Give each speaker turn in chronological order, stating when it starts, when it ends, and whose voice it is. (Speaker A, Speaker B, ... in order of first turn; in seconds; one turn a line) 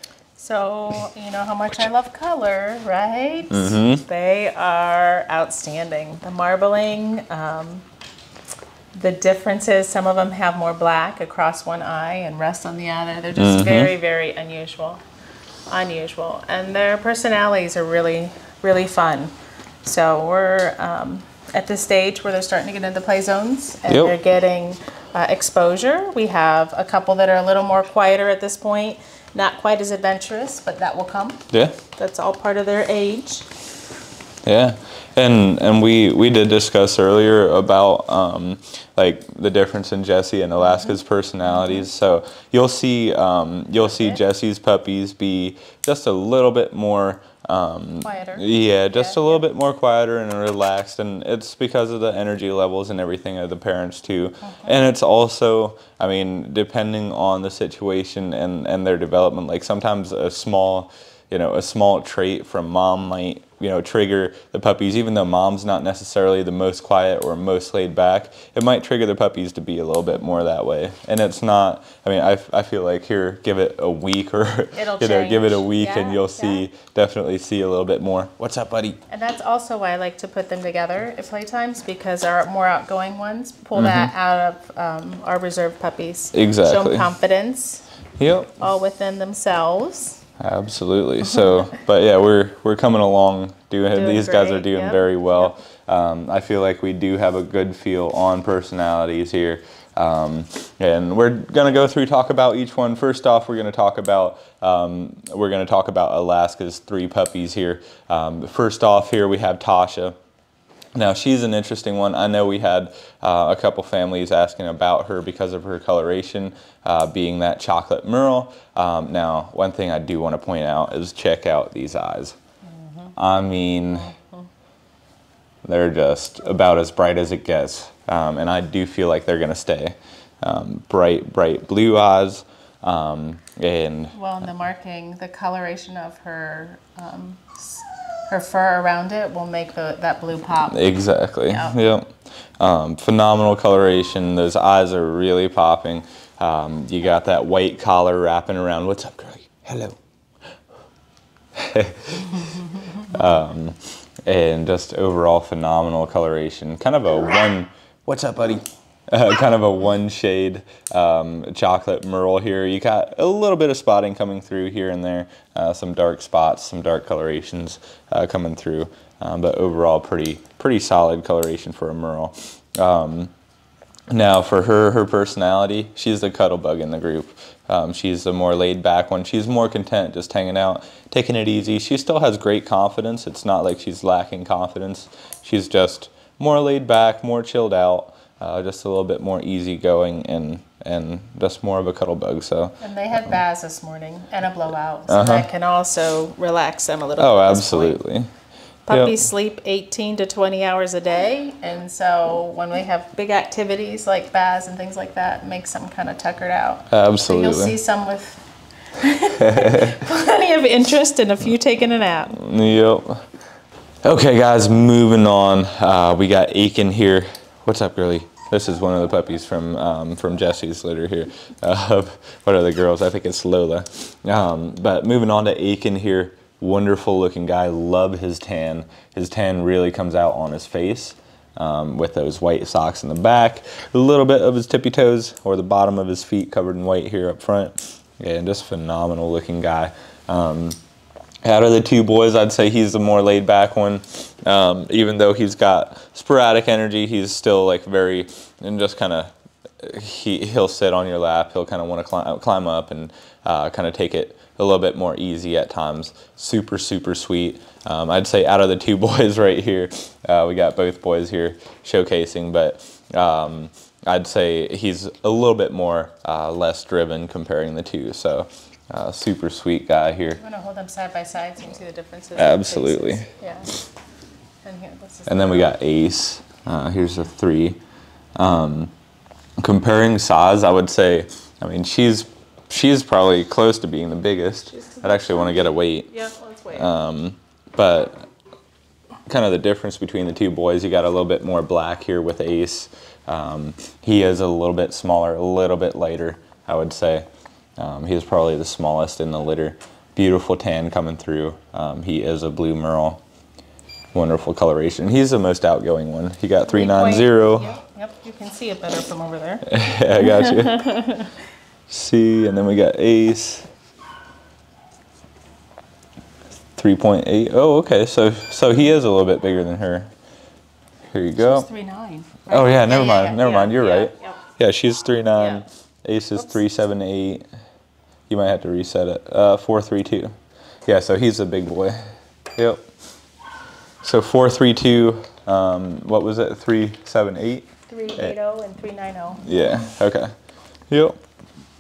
Speaker A: 0.4-7.8
Speaker B: 3.5-4.0
Speaker A: 8.9-15.0
Speaker B: 13.3-13.9
Speaker A: 15.7-31.4
Speaker B: 23.9-24.1
Speaker B: 31.5-31.8
Speaker A: 32.0-33.5
Speaker B: 34.4-79.0
Speaker A: 48.0-49.4
Speaker A: 54.5-54.7
Speaker A: 74.7-76.6
Speaker A: 79.1-87.8
Speaker B: 83.7-84.1
Speaker B: 86.3-87.1
Speaker B: 88.2-88.5
Speaker A: 88.5-90.2
Speaker B: 90.4-110.2
Speaker A: 93.9-95.5
Speaker B: 110.9-122.4
Speaker A: 122.7-123.1
Speaker B: 123.2-124.1
Speaker A: 124.1-124.5
Speaker B: 125.6-134.2
Speaker A: 134.1-140.8
Speaker B: 140.7-150.0
Speaker A: 141.5-141.8
Speaker B: 151.6-173.3
Speaker B: 174.1-192.8
Speaker A: 192.8-198.0
Speaker B: 195.1-195.5
Speaker B: 197.2-198.3
Speaker A: 198.9-208.4
Speaker B: 198.9-199.2
Speaker B: 206.9-207.8
Speaker A: 209.0-212.4
Speaker B: 209.4-210.0
Speaker B: 212.3-213.2
Speaker B: 214.0-240.8
Speaker B: 241.4-270.4
Speaker A: 270.4-273.7
Speaker B: 272.4-273.3
Speaker A: 274.6-275.7
Speaker B: 275.3-277.8
Speaker B: 278.4-278.9
Speaker B: 279.6-286.1
Speaker A: 284.7-286.9
Speaker B: 286.7-288.3
Speaker B: 289.3-297.2
Speaker B: 297.8-303.2
Speaker B: 304.1-307.8
Speaker A: 306.7-311.3
Speaker B: 309.6-310.9
Speaker B: 311.9-313.7
Speaker B: 316.8-320.1
Speaker B: 321.1-321.6
Speaker A: 321.4-324.4
Speaker B: 322.5-327.4
Speaker A: 325.4-325.6
Speaker B: 328.3-330.3
Speaker B: 330.9-332.0
Speaker B: 332.6-332.8
Speaker B: 334.0-338.3
Speaker A: 337.9-339.6
Speaker B: 339.4-340.3
Speaker B: 340.9-341.2